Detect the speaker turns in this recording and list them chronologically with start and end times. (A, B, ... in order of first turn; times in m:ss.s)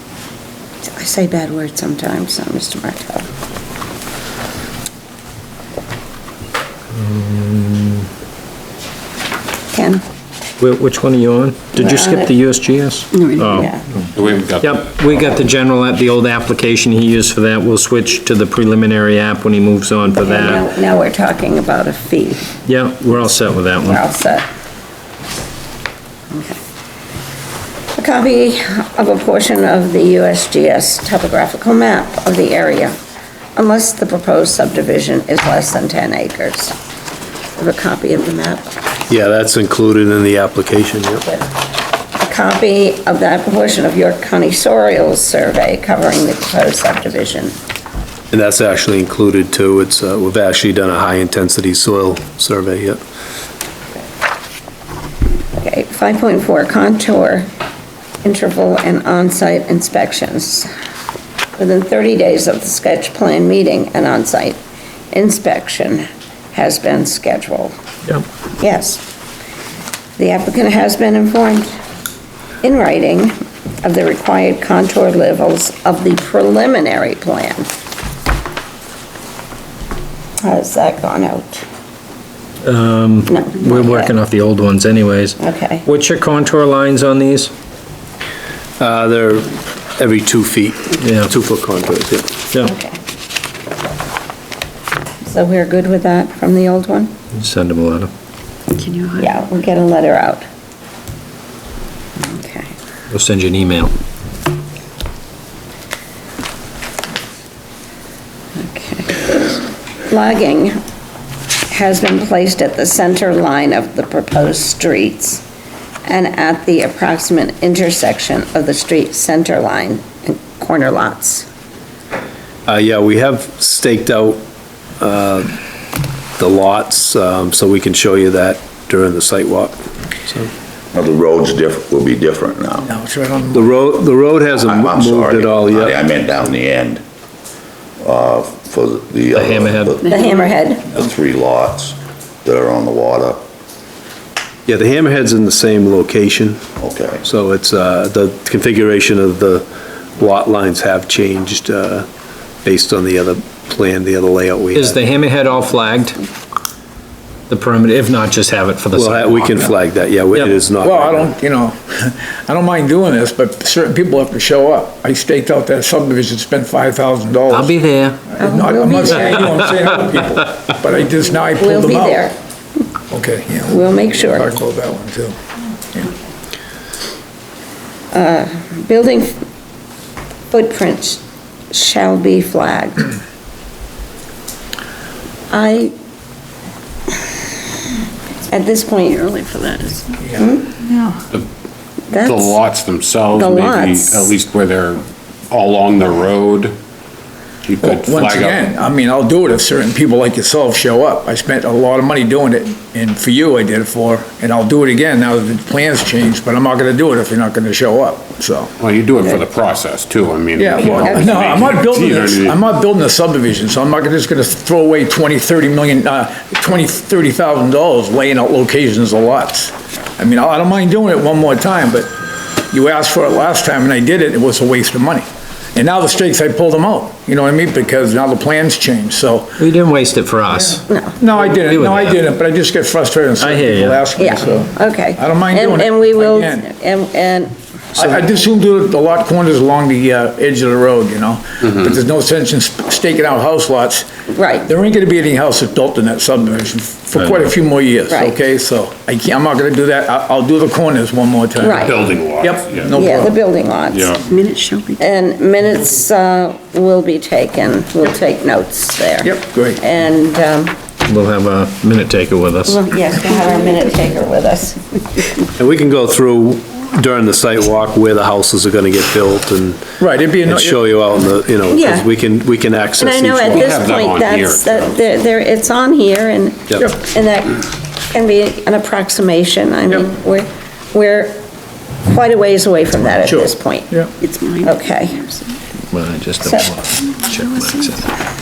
0:00.8-0:03.2 A
0:07.0-0:08.0 B
0:09.7-0:10.0 A
0:10.6-0:20.6 B
0:11.8-0:12.3 A
0:13.3-0:13.8 A
0:14.1-0:14.9 C
0:20.2-0:22.4 A
0:22.7-0:24.0 B
0:23.8-0:24.4 A
0:26.3-0:26.6 A
0:27.9-0:33.0 A
0:33.6-0:36.7 A
0:37.6-0:38.8 A
0:39.1-0:41.2 D
0:42.2-0:47.6 A
0:48.3-0:53.0 D
0:55.5-0:57.5 A
0:58.2-1:00.7 A
1:01.6-1:04.6 A
1:05.1-1:07.7 A
1:08.6-1:09.0 A
1:10.2-1:11.8 A
1:12.6-1:17.7 A
1:20.4-1:21.6 A
1:22.6-1:27.5 B
1:23.3-1:24.1 A
1:25.4-1:25.8 A
1:28.8-1:32.4 D
1:31.0-1:31.3 B
1:32.6-1:33.0 A
1:35.2-1:37.1 A
1:37.3-1:38.1 B
1:38.7-1:39.3 E
1:39.2-1:40.4 A
1:42.2-1:42.7 A
1:43.1-1:43.9 B
1:48.6-1:50.8 A
1:51.7-1:55.4 A
1:56.0-2:01.5 A
2:02.7-2:04.4 D
2:05.0-2:05.6 D
2:06.4-2:10.5 D
2:10.9-2:12.9 F
2:12.8-2:13.7 G
2:13.5-2:16.0 D
2:14.6-2:17.0 F
2:18.0-2:20.0 F
2:19.3-2:20.0 B
2:20.1-2:21.0 A
2:20.1-2:20.4 E
2:20.9-2:23.4 F
2:24.7-2:26.7 D
2:26.8-2:27.2 F
2:27.2-2:29.6 D
2:30.2-2:32.1 D
2:32.6-2:35.0 D
2:34.7-2:36.2 B
2:37.5-2:39.7 B
2:38.9-2:41.3 D
2:40.3-2:40.6 B
2:40.8-2:47.7 G
2:47.5-2:48.3 B
2:48.4-2:52.3 G
2:48.4-2:49.5 A
2:51.6-2:52.3 A
2:53.1-2:55.3 G
2:53.7-2:54.5 A
2:58.1-2:59.4 A
3:00.5-3:03.1 A
3:05.5-3:05.9 A
3:08.5-3:10.8 A
3:09.2-3:10.0 E
3:10.8-3:11.2 E
3:12.1-3:12.6 A
3:12.2-3:15.0 C
3:13.3-3:14.3 A
3:15.5-3:16.7 C
3:17.7-3:18.6 C
3:17.8-3:28.7 G
3:28.8-3:32.5 C
3:30.6-3:42.1 G
3:31.0-3:31.4 A
3:42.7-3:49.6 G
3:49.6-3:50.8 B
3:50.9-3:51.1 A
3:51.2-3:56.7 G
3:51.4-3:52.2 B
3:53.4-3:54.1 B
3:54.2-3:57.5 A
3:57.9-4:04.1 G
4:04.3-4:04.7 A
4:04.7-4:13.4 G
4:08.1-4:08.3 A
4:11.6-4:12.0 A
4:11.9-4:13.0 C
4:12.9-4:14.2 A
4:13.9-4:14.2 C
4:14.2-4:15.0 E
4:15.0-4:20.7 A
4:19.2-4:19.8 G
4:21.1-4:22.8 B
4:22.7-4:24.8 A
4:25.6-4:33.8 D
4:30.0-4:30.9 G
4:31.7-4:32.1 A
4:33.0-4:41.4 A
4:33.6-4:34.9 C
4:42.0-4:43.9 A
4:43.2-4:44.1 G
4:44.2-4:45.4 E
4:44.6-4:45.3 A
4:45.9-4:48.1 B
4:46.4-4:46.7 A
4:47.2-4:48.1 E